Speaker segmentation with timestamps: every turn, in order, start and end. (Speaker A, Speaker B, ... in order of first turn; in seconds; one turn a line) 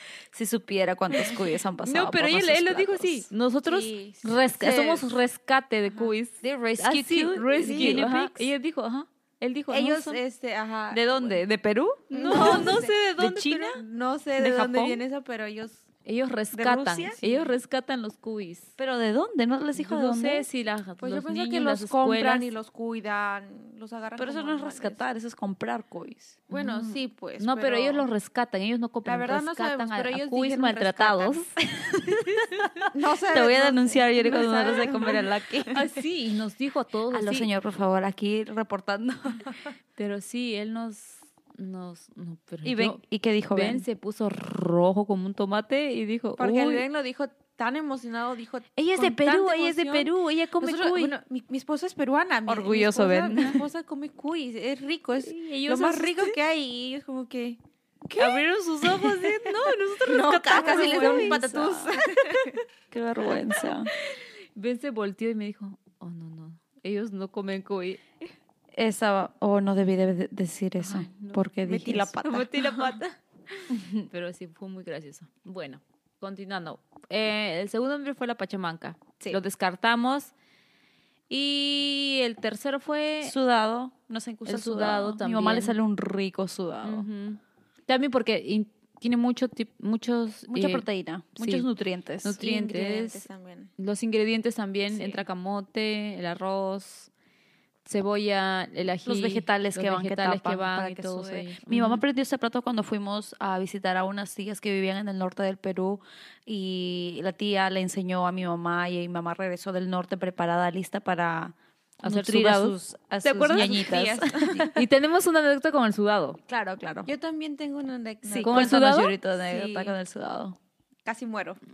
Speaker A: 0.3-3.3
Speaker B: 1.2-10.2
Speaker C: 3.7-5.0
Speaker A: 6.4-8.5
Speaker C: 7.5-8.1
Speaker C: 9.7-11.4
Speaker B: 10.9-13.8
Speaker C: 12.1-15.9
Speaker A: 12.3-12.7
Speaker B: 14.4-15.0
Speaker B: 16.1-18.7
Speaker C: 16.5-17.4
Speaker A: 18.8-20.5
Speaker B: 19.8-22.5
Speaker C: 21.0-25.0
Speaker A: 24.2-26.4
Speaker C: 26.5-28.1
Speaker B: 26.5-32.8
Speaker C: 29.1-31.4
Speaker C: 32.9-35.8
Speaker A: 33.3-35.8
Speaker B: 35.7-37.5
Speaker A: 37.1-39.7
Speaker B: 40.0-43.0
Speaker A: 42.6-43.9
Speaker B: 43.5-46.8
Speaker C: 46.4-62.6
Speaker B: 48.8-51.1
Speaker A: 52.5-53.6
Speaker B: 55.2-56.4
Speaker B: 58.1-61.5
Speaker A: 60.5-62.0
Speaker A: 62.9-63.9
Speaker B: 63.5-68.0
Speaker A: 68.7-72.2
Speaker B: 70.8-71.4
Speaker C: 71.6-73.0
Speaker B: 72.2-80.3
Speaker A: 73.7-74.1
Speaker B: 81.3-83.3
Speaker A: 83.2-87.1
Speaker B: 84.5-85.8
Speaker B: 86.8-90.8
Speaker A: 90.5-92.4
Speaker B: 91.4-91.7
Speaker B: 92.2-93.3
Speaker C: 92.4-93.7
Speaker B: 93.8-97.1
Speaker A: 95.0-95.2
Speaker B: 97.8-102.0
Speaker A: 99.0-114.8
Speaker B: 112.0-116.4
Speaker C: 113.5-114.7
Speaker A: 116.5-117.1
Speaker C: 117.1-118.8
Speaker A: 118.2-120.6
Speaker B: 118.4-119.2
Speaker C: 119.4-120.0
Speaker C: 121.1-121.6